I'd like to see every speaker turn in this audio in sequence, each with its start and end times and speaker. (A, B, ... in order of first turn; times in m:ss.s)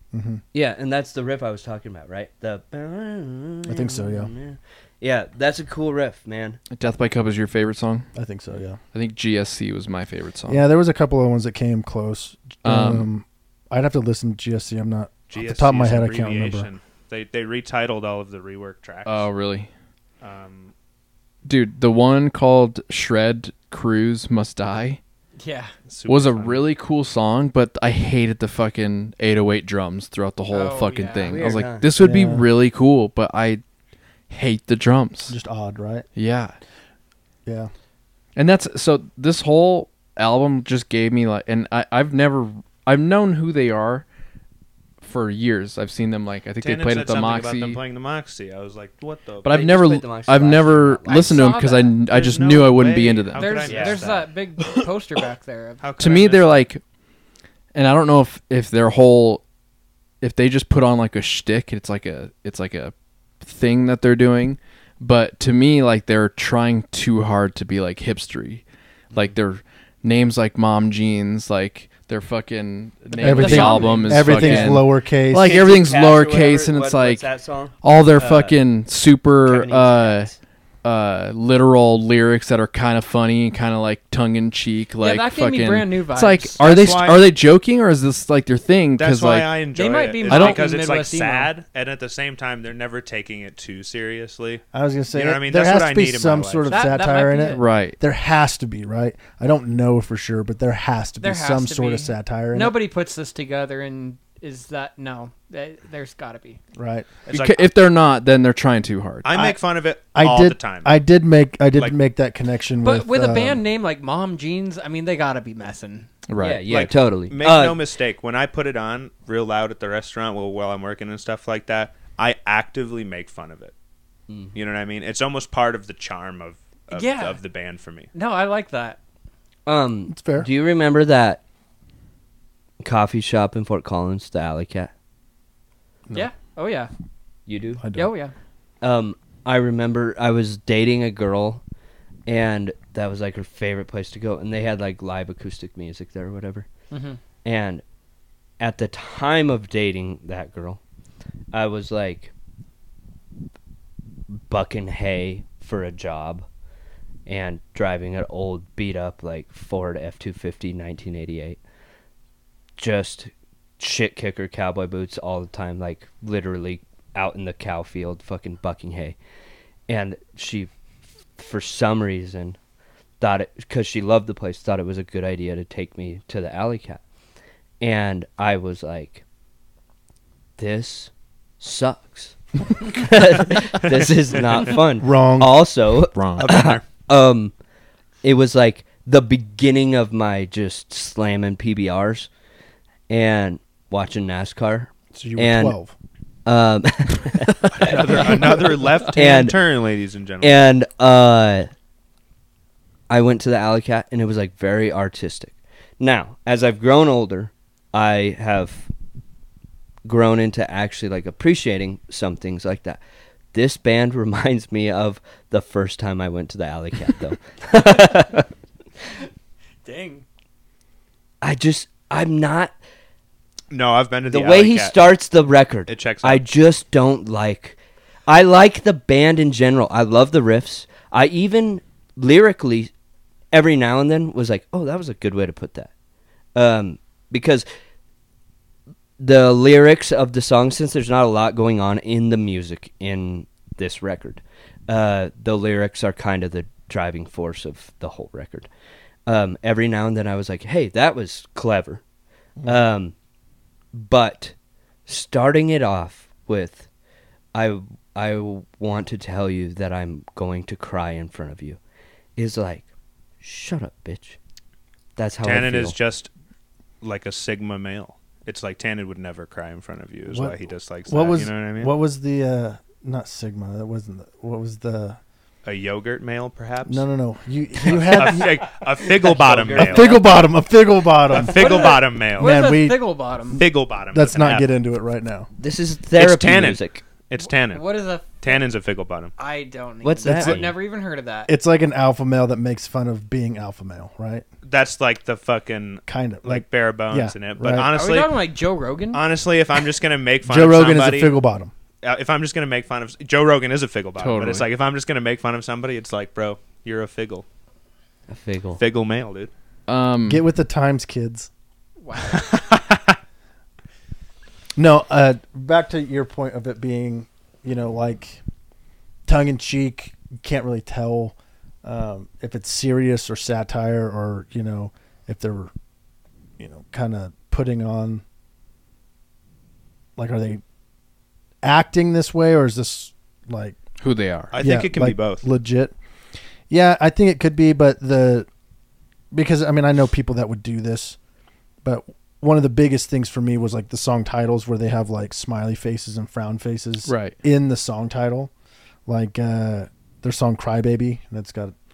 0:00.1-0:00.4 A
0:00.5-0:06.6 B
0:03.6-0:04.3 A
0:06.7-0:08.1 C
0:08.1-0:08.8 A
0:08.9-0:10.6 C
0:10.5-0:16.7 A
0:12.6-0:13.1 C
0:15.3-0:19.3 D
0:19.0-0:19.7 C
0:20.2-0:20.7 D
0:21.4-0:25.0 C
0:25.4-0:25.7 E
0:25.9-0:26.7 D
0:26.0-0:33.6 C
0:30.5-0:31.4 E
0:31.2-0:31.9 B
0:32.0-0:32.5 A
0:34.3-0:35.3 C
0:35.3-0:36.0 A
0:36.2-0:36.6 C
0:37.4-0:37.7 A
0:38.4-0:44.0 C
0:45.0-0:47.8 C
0:46.6-0:49.6 D
0:49.4-0:53.7 C
0:49.5-0:51.5 B
0:51.1-0:52.0 E
0:52.1-0:54.2 D
0:53.3-0:55.8 E
0:53.6-0:54.2 B
0:55.8-0:56.6 D
0:56.0-0:56.8 C
0:57.7-0:59.4 C
1:00.2-1:17.3 C
1:13.1-1:14.8 E
1:13.2-1:15.5 A
1:15.4-1:18.6 B
1:17.8-1:20.3 C
1:19.4-1:20.4 B
1:20.8-1:29.5 C
1:25.0-1:26.6 E
1:26.6-1:27.2 D
1:29.0-1:36.8 D
1:29.7-1:31.5 E
1:30.2-1:30.7 C
1:34.7-1:42.8 A
1:36.7-1:37.6 E
1:37.5-1:38.0 C
1:41.2-1:46.6 E
1:46.7-1:47.1 A
1:47.2-1:47.7 D
1:47.3-1:49.3 C
1:49.2-1:50.9 D
1:50.1-1:53.6 A
1:52.8-1:56.1 E
1:56.3-1:56.7 C
1:56.4-1:57.8 B
1:56.7-2:03.7 D
2:04.3-2:04.5 B
2:04.5-2:08.1 D
2:06.9-2:07.4 E
2:08.1-2:09.0 E
2:09.6-2:11.4 B
2:10.1-2:10.5 A
2:12.8-2:14.9 B
2:16.1-2:16.9 E
2:17.5-2:17.8 B
2:17.8-2:18.1 A
2:17.9-2:18.3 E
2:18.8-2:21.6 B
2:22.3-2:26.7 B
2:26.9-2:27.2 E
2:27.4-2:27.8 B
2:28.6-2:30.8 B
2:31.5-2:32.3 B
2:34.3-2:36.5 B
2:37.3-2:41.6 B
2:42.8-2:49.2 B
2:49.9-2:50.7 B
2:51.4-2:52.6 B
2:53.2-2:57.0 B
2:57.8-2:59.2 B
3:00.6-3:07.5 B
3:04.7-3:05.7 A
3:06.1-3:06.5 C
3:06.4-3:06.8 D
3:08.2-3:12.3 B
3:13.1-3:15.7 B
3:15.1-3:15.9 A
3:16.4-3:19.6 B
3:17.7-3:20.6 D
3:20.4-3:21.7 B
3:23.1-3:28.9 B
3:30.0-3:33.0 B
3:33.5-3:38.5 B
3:39.8-3:40.2 E
3:41.4-3:42.7 B
3:43.7-3:45.1 D
3:44.3-3:52.9 B
3:45.9-3:46.4 D
3:53.5-3:55.9 B
3:56.5-3:57.6 B
3:59.2-4:08.7 B
4:09.2-4:12.0 B
4:12.6-4:12.8 A
4:12.6-4:13.1 B
4:13.9-4:14.5 B
4:15.0-4:16.9 B
4:17.5-4:21.8 B
4:22.4-4:22.8 B
4:23.4-4:24.4 B
4:25.2-4:25.9 B
4:25.4-4:26.3 D
4:27.0-4:31.9 D
4:30.3-4:30.5 A
4:31.1-4:35.2 A
4:35.6-4:37.1 D
4:36.8-4:38.6 A
4:37.8-4:40.2 D
4:38.1-4:38.5 B
4:39.2-4:40.3 B
4:39.7-4:45.5 A
4:41.3-4:42.6 D
4:41.4-4:43.6 E
4:43.5-4:44.7 D
4:45.6-4:47.0 B
4:46.1-4:49.3 D
4:47.4-4:48.6 E
4:49.4-4:51.5 E
4:50.0-4:50.7 B
4:50.3-4:50.6 D
4:51.5-4:54.4 A
4:54.6-4:58.4 D
4:56.0-4:57.9 A
4:57.9-4:59.2 E
4:59.1-5:01.4 D
5:00.4-5:01.7 A
5:02.0-5:07.4 D
5:04.2-5:04.6 C
5:08.3-5:08.8 B
5:08.8-5:09.5 D
5:09.9-5:10.4 C
5:10.2-5:11.5 A
5:12.0-5:12.5 E
5:12.3-5:13.2 D
5:14.8-5:18.4 A
5:19.2-5:25.7 A
5:26.6-5:28.2 A
5:30.2-5:30.6 A
5:31.6-5:33.8 A
5:34.0-5:34.5 C
5:34.5-5:35.4 D
5:34.6-5:35.9 A
5:36.7-5:38.5 A
5:39.3-5:41.2 A
5:41.8-5:48.5 A
5:47.0-5:47.4 C
5:49.0-5:51.7 A